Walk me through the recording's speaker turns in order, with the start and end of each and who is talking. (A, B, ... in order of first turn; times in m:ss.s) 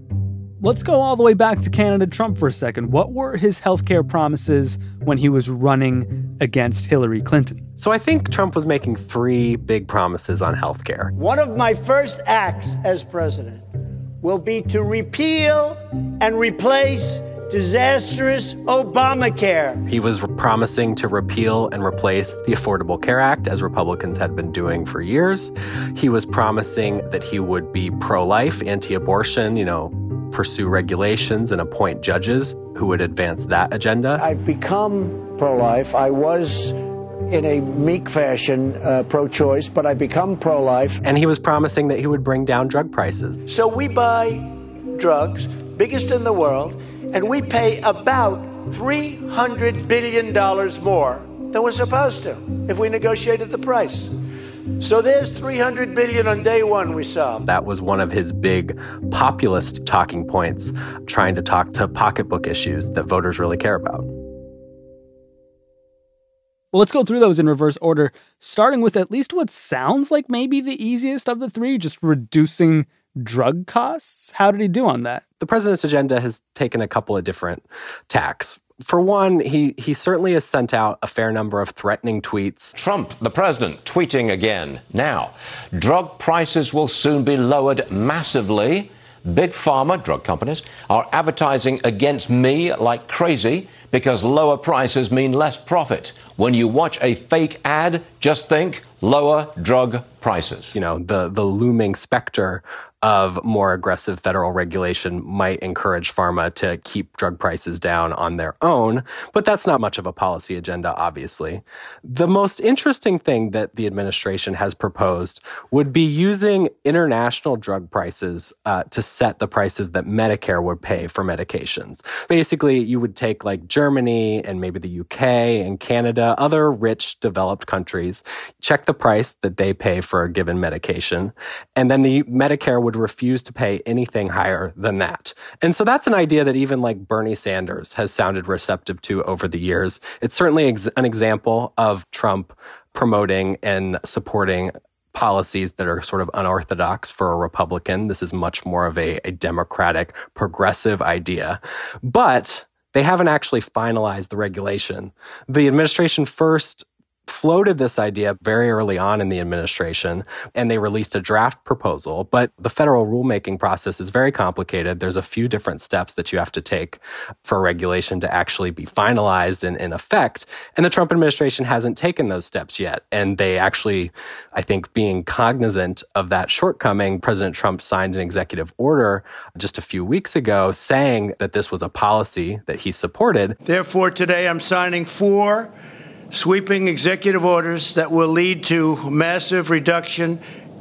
0:00.6-0:07.6 A
0:07.8-0:11.1 B
0:11.2-0:13.6 C
0:14.2-0:19.8 C
0:19.9-0:34.2 B
0:34.2-0:41.0 C
0:41.0-0:43.4 B
0:43.5-0:54.2 C
0:54.8-0:57.4 C
0:57.5-1:04.1 B
1:06.7-1:15.2 A
1:15.4-1:22.8 B
1:22.8-1:40.8 D
1:40.7-3:03.6 B
3:03.6-3:05.7 C
3:06.3-3:10.4 C